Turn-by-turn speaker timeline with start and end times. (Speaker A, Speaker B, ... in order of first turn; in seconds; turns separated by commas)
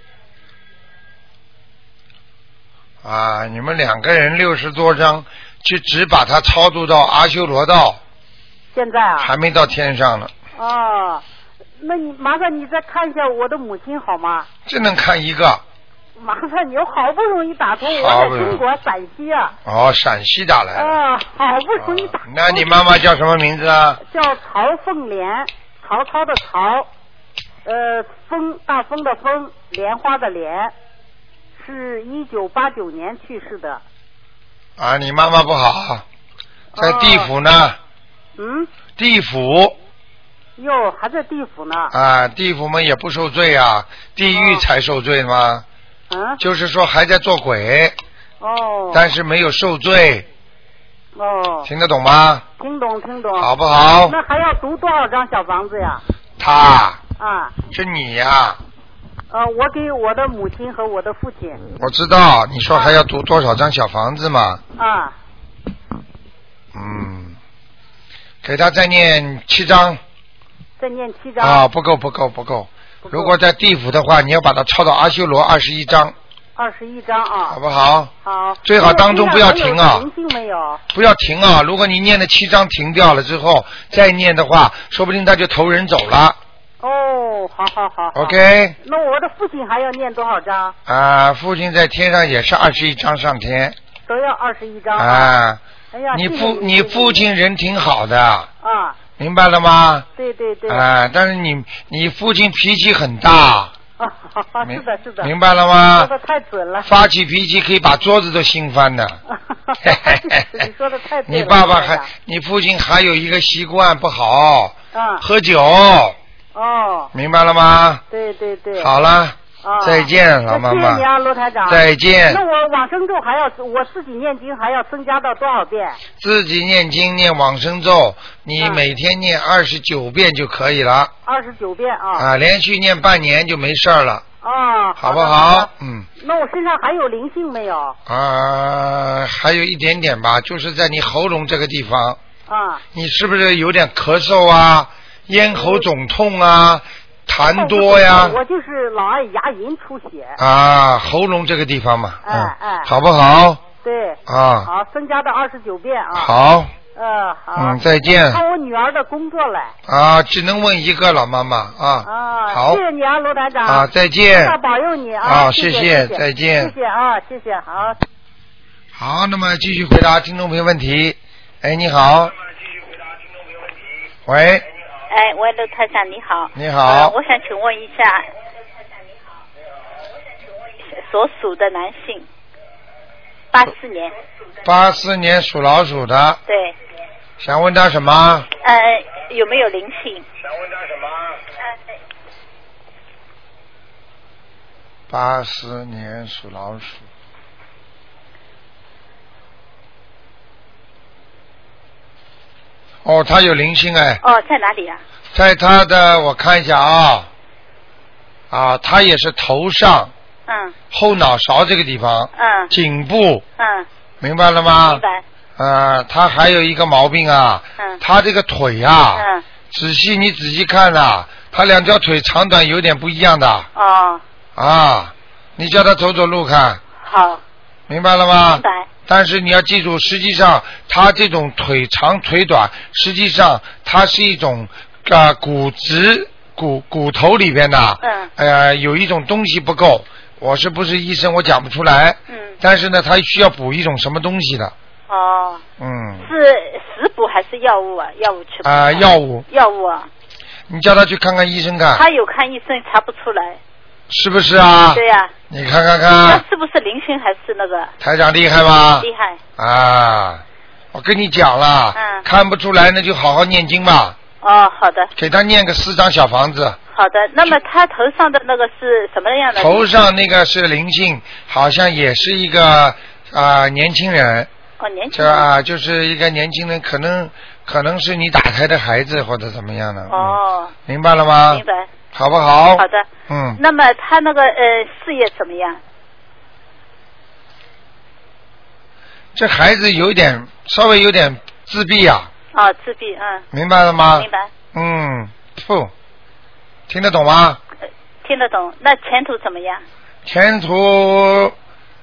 Speaker A: 3.0-8.0, Speaker B: 8.7-9.3, Speaker A: 9.2-10.3, Speaker B: 10.6-11.2, Speaker B: 11.8-14.5, Speaker A: 14.7-15.6, Speaker B: 16.2-19.6, Speaker A: 17.9-18.6, Speaker A: 19.6-21.0, Speaker B: 20.8-22.8, Speaker A: 21.8-24.0, Speaker B: 24.0-26.9, Speaker B: 27.6-30.7, Speaker B: 31.6-33.8, Speaker A: 34.8-36.0, Speaker B: 36.7-37.3, Speaker A: 36.8-37.8, Speaker B: 38.4-38.7, Speaker A: 39.0-39.7, Speaker B: 40.6-41.9, Speaker A: 41.9-45.6, Speaker B: 44.3-44.6, Speaker B: 46.1-46.4, Speaker A: 46.4-48.0, Speaker B: 48.4-49.1, Speaker A: 48.9-50.2, Speaker B: 51.1-51.7, Speaker A: 51.6-52.4, Speaker B: 52.6-53.5, Speaker A: 53.4-54.1, Speaker B: 54.1-56.0, Speaker A: 56.4-57.0, Speaker B: 57.2-57.5, Speaker A: 57.7-58.6, Speaker B: 59.3-61.6, Speaker A: 61.8-64.6, Speaker B: 64.8-65.1, Speaker A: 66.7-67.4, Speaker A: 68.4-70.0, Speaker B: 70.8-71.6, Speaker A: 71.4-76.1, Speaker B: 73.0-73.4, Speaker B: 76.5-77.6, Speaker A: 77.5-78.1, Speaker B: 78.2-80.8, Speaker A: 78.6-80.0, Speaker A: 80.9-86.4, Speaker B: 86.8-90.7, Speaker A: 88.1-88.8, Speaker A: 90.8-93.8, Speaker B: 94.1-95.3, Speaker A: 95.0-95.6, Speaker B: 95.9-97.2, Speaker A: 96.1-98.5, Speaker B: 98.6-99.0, Speaker A: 99.2-100.0, Speaker B: 100.2-100.8, Speaker A: 100.7-103.7, Speaker B: 104.0-105.3, Speaker A: 104.6-106.1, Speaker B: 105.9-106.9, Speaker A: 106.8-109.2, Speaker B: 109.3-112.1, Speaker A: 109.8-110.7, Speaker A: 111.3-116.2, Speaker B: 114.9-115.2, Speaker B: 116.5-117.1, Speaker A: 117.1-118.0, Speaker B: 118.1-118.9, Speaker A: 118.8-121.0, Speaker B: 119.6-126.0, Speaker A: 121.7-122.4, Speaker A: 126.2-131.1, Speaker B: 128.6-128.8, Speaker B: 131.2-132.2, Speaker A: 132.2-134.2, Speaker B: 134.4-138.0, Speaker A: 135.0-136.1, Speaker A: 138.1-142.2, Speaker B: 142.5-142.8, Speaker A: 142.9-148.4, Speaker B: 145.5-145.8, Speaker B: 147.5-150.4, Speaker A: 150.4-153.6, Speaker B: 152.2-152.9, Speaker B: 153.8-156.3, Speaker A: 154.3-154.7, Speaker A: 156.1-156.7, Speaker B: 156.9-159.7, Speaker A: 157.6-158.4, Speaker A: 159.9-162.8, Speaker B: 162.0-168.0, Speaker A: 163.7-164.6, Speaker A: 165.2-166.7, Speaker A: 168.9-172.3, Speaker A: 174.2-174.7, Speaker C: 175.1-178.3, Speaker A: 176.5-177.1, Speaker C: 180.9-182.2, Speaker C: 183.5-184.1, Speaker A: 184.6-186.4, Speaker C: 186.5-186.7, Speaker A: 187.4-188.5, Speaker C: 188.6-190.2, Speaker A: 195.1-197.1, Speaker A: 203.0-204.2, Speaker C: 204.2-205.0, Speaker A: 205.3-207.3, Speaker A: 208.5-210.1, Speaker C: 210.5-210.7, Speaker A: 210.9-213.4, Speaker C: 212.3-212.7, Speaker C: 213.6-213.8, Speaker A: 214.2-215.0, Speaker C: 214.8-215.2, Speaker A: 215.6-223.7, Speaker C: 219.2-219.4, Speaker C: 223.8-224.2, Speaker A: 224.6-226.8, Speaker C: 227.0-227.4, Speaker A: 227.9-244.7, Speaker C: 228.5-228.9, Speaker C: 238.0-238.3, Speaker C: 242.3-242.6, Speaker C: 245.1-245.6, Speaker A: 245.8-246.3, Speaker C: 246.2-250.1, Speaker A: 248.6-249.4, Speaker A: 250.7-252.1, Speaker C: 251.9-253.6, Speaker A: 254.1-256.4, Speaker C: 254.9-255.3, Speaker C: 256.2-257.9, Speaker A: 258.0-264.2, Speaker C: 259.0-259.4, Speaker C: 261.9-262.2, Speaker C: 264.4-265.1, Speaker A: 265.1-266.8, Speaker C: 266.9-269.9, Speaker A: 269.6-274.5, Speaker C: 274.8-275.5, Speaker A: 275.1-281.6, Speaker C: 280.1-280.7, Speaker C: 281.5-281.9, Speaker A: 282.1-283.6, Speaker C: 282.8-285.8, Speaker A: 289.3-292.3, Speaker C: 292.5-293.4, Speaker A: 293.5-295.9, Speaker C: 294.2-294.5, Speaker A: 296.9-297.6, Speaker C: 298.2-299.8, Speaker A: 300.2-301.5